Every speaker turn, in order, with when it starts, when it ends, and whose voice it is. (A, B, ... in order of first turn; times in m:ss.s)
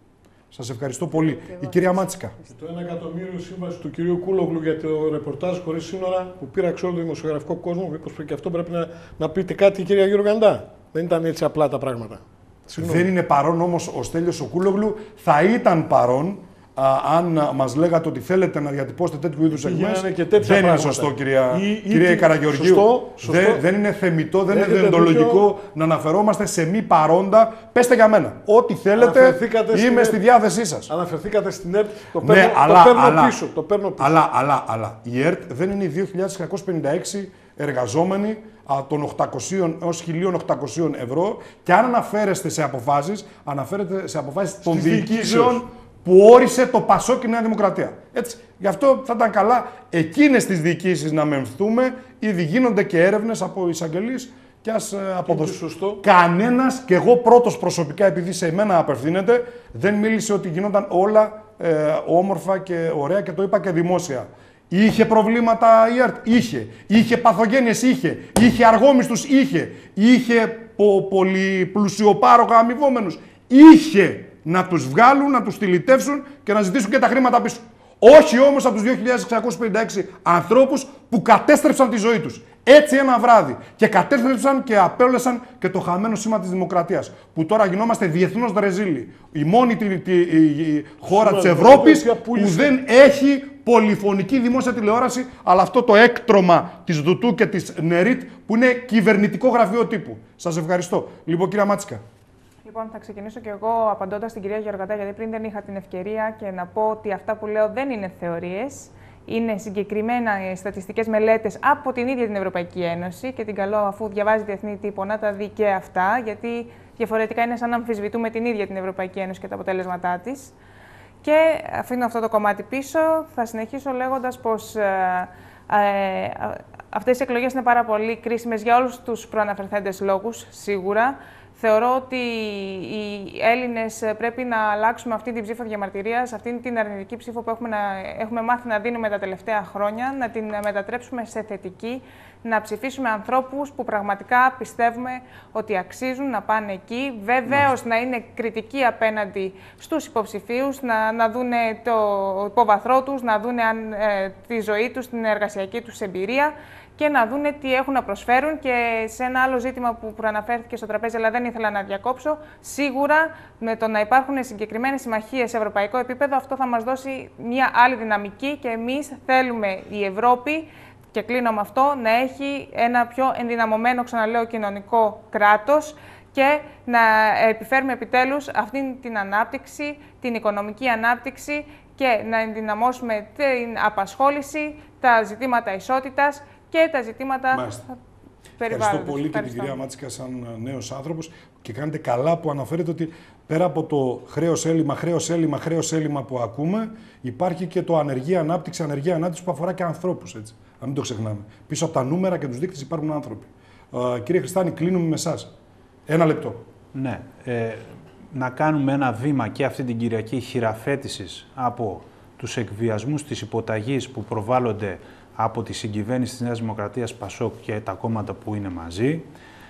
0:00.5-0:02.4 A
0:02.5-0:13.1 B
0:12.8-0:30.9 A
0:19.5-0:23.6 B
0:24.5-0:25.5 B
0:29.0-0:30.2 B
0:30.9-0:34.2 B
0:32.2-0:33.4 A
0:34.0-1:42.0 A
0:44.6-0:45.6 B
0:55.3-0:56.0 B
1:31.1-1:32.8 B
1:42.6-2:00.5 C
2:01.2-3:07.6 C
3:07.5-3:07.8 A
3:08.6-3:09.8 C
3:08.7-3:25.5 A
3:26.1-3:26.6 A
3:26.9-3:39.3 D